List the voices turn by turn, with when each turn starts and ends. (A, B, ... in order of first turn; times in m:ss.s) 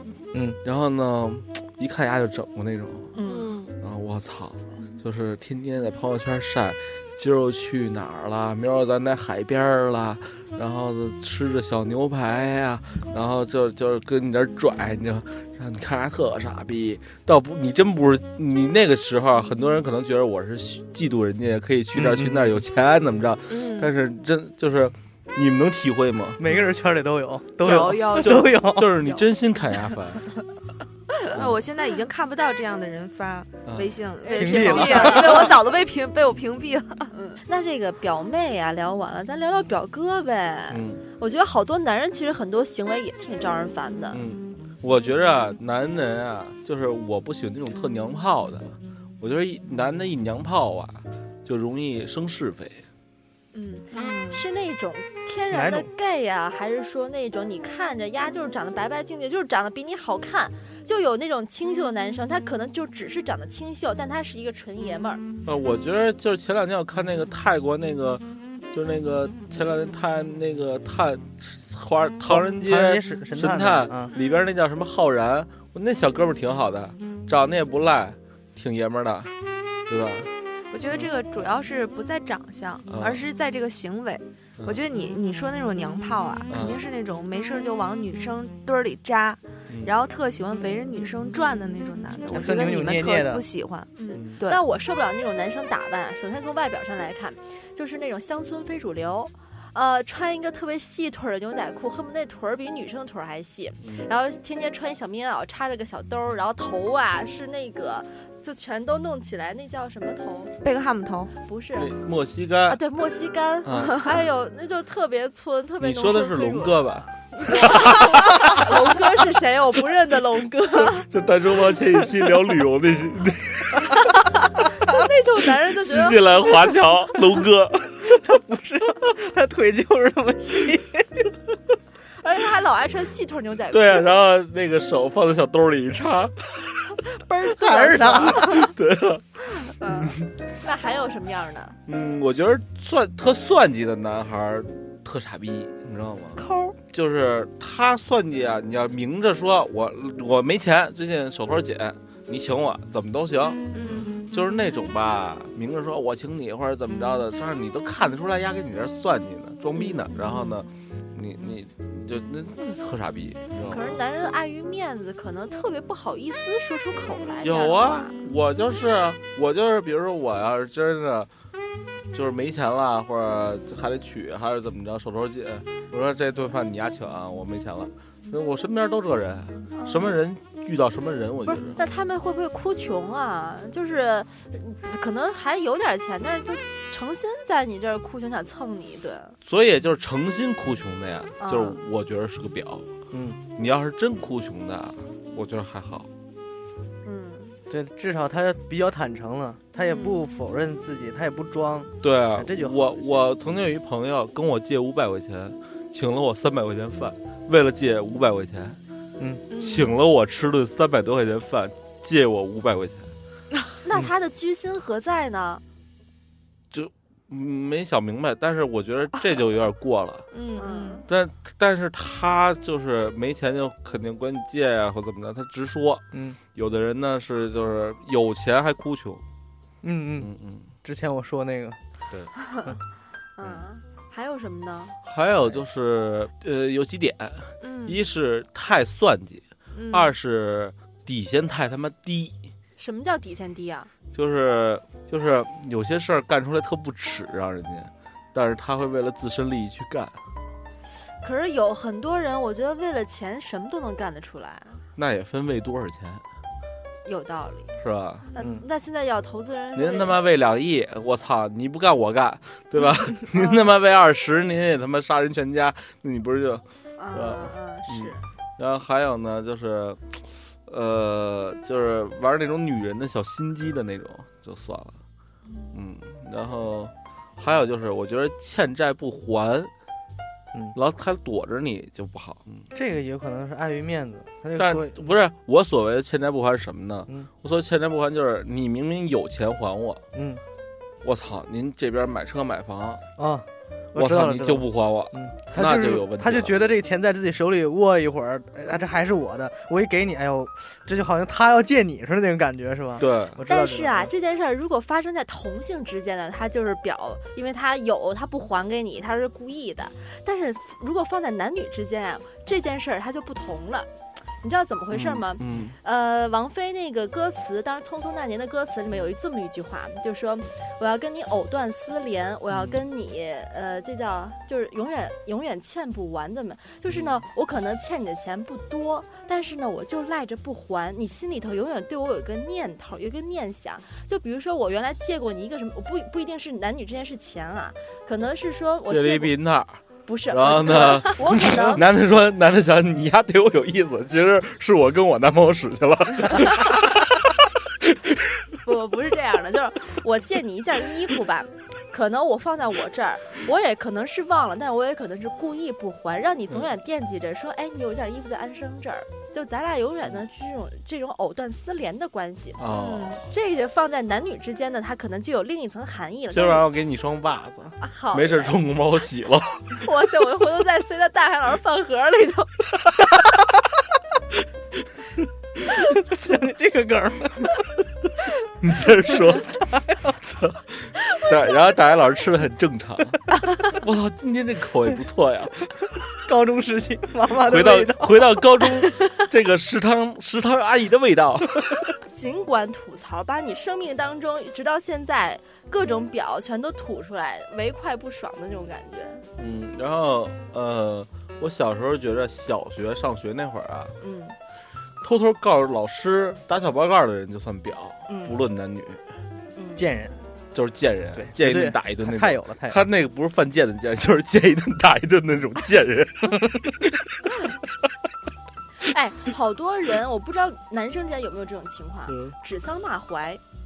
0:00.3-0:00.6 A
0:00.6-0:03.1 B
0:03.1-0:03.7 C
0:03.8-0:26.6 B
0:21.9-0:22.6 A
0:23.5-0:23.9 D
0:26.4-0:28.9 A
0:27.6-0:29.3 D
0:28.1-0:30.3 B
0:31.3-0:37.1 D
0:31.3-0:31.6 B
0:33.6-0:34.0 B
0:34.2-0:35.5 C
0:34.3-0:35.5 A
0:37.1-0:44.2 C
0:40.7-0:41.0 B
0:44.1-0:52.8 B
0:53.5-1:05.2 C
0:53.9-0:54.4 D
0:55.5-0:55.9 A
1:05.4-1:19.3 B
1:12.3-1:14.1 A
1:19.9-1:20.3 B
1:20.7-1:34.6 D
1:22.9-1:23.2 B
1:26.5-1:26.8 B
1:32.3-1:33.4 A
1:34.0-1:50.5 C
1:34.1-1:34.4 B
1:43.8-1:44.1 B
1:50.6-1:51.3 D
1:51.4-1:51.9 C
1:51.8-1:52.8 B
1:52.7-2:01.0 C
1:53.6-1:54.1 B
1:55.8-1:58.7 B
2:00.8-2:04.0 B
2:04.0-2:06.7 C
2:05.8-2:08.0 B
2:08.0-2:11.3 A
2:12.2-2:14.1 C
2:13.7-2:17.0 B
2:17.1-2:18.7 C
2:17.6-2:18.6 A
2:18.0-2:19.2 B
2:19.6-2:21.8 C
2:19.8-2:20.3 B
2:21.9-2:33.6 B
2:26.4-2:26.8 C
2:33.7-2:34.3 D
2:34.3-2:44.0 B
2:43.6-2:43.8 A
2:43.7-2:48.2 C
2:47.4-2:51.3 B
2:52.1-3:01.8 B
2:59.7-3:00.2 C
3:01.5-3:09.4 C
3:09.4-3:12.9 B
3:11.4-3:11.8 C
3:13.1-3:13.4 A
3:13.6-3:16.1 B
3:17.0-3:17.6 C
3:17.7-3:23.2 A
3:22.0-3:28.8 B
3:29.2-3:29.4 A
3:29.5-3:30.0 D
3:29.5-3:33.1 B
3:33.8-3:35.6 C
3:36.7-3:40.3 B
3:40.3-3:41.0 D
3:40.5-3:41.0 C
3:41.1-3:46.0 B
3:46.1-3:46.4 A
3:46.5-3:49.2 B
3:49.8-3:50.3 A
3:50.2-3:50.7 B
3:50.8-3:51.8 A
3:53.4-3:55.0 C
3:55.0-4:02.4 B
3:57.6-3:58.0 D
3:59.8-4:00.0 D
4:02.8-4:03.9 C
4:04.1-4:10.2 B
4:11.2-4:14.8 C
4:15.0-4:16.2 B
4:17.0-4:17.7 C
4:17.8-4:18.3 B
4:18.3-4:20.2 C
4:18.4-4:18.6 A
4:19.7-4:35.0 B
4:27.0-4:28.2 C
4:35.7-4:39.7 B
4:40.7-4:42.6 B
4:42.7-4:45.0 A
4:44.6-4:50.0 B
4:50.1-4:50.4 A
4:51.0-4:53.0 B
4:53.2-5:04.1 A
4:53.9-4:56.6 B
5:03.0-5:03.4 B
5:03.5-5:13.9 C
5:14.4-5:39.3 C
5:14.9-5:15.8 B
5:22.5-5:22.8 B
5:38.9-5:39.8 B
5:40.0-5:41.8 C
5:40.3-5:47.2 B
5:48.6-6:02.6 C
6:02.6-6:03.2 B
6:02.7-6:03.2 D
6:03.2-6:06.6 C
6:06.3-6:09.7 B
6:07.8-6:08.6 C
6:09.8-6:12.5 C
6:15.7-6:17.6 A
6:18.6-6:19.6 B
6:19.6-6:20.1 A
6:20.2-6:25.6 B
6:26.2-6:28.4 A
6:27.4-6:31.8 B
6:32.1-6:39.2 C
6:39.4-6:43.9 B
6:44.0-6:44.4 C
6:45.0-6:49.0 B
6:48.1-6:48.4 C
6:49.6-6:49.8 C
6:49.8-6:50.2 A
6:50.5-6:57.0 B
6:51.1-6:52.8 A
6:58.8-7:03.4 C
7:02.1-7:02.3 B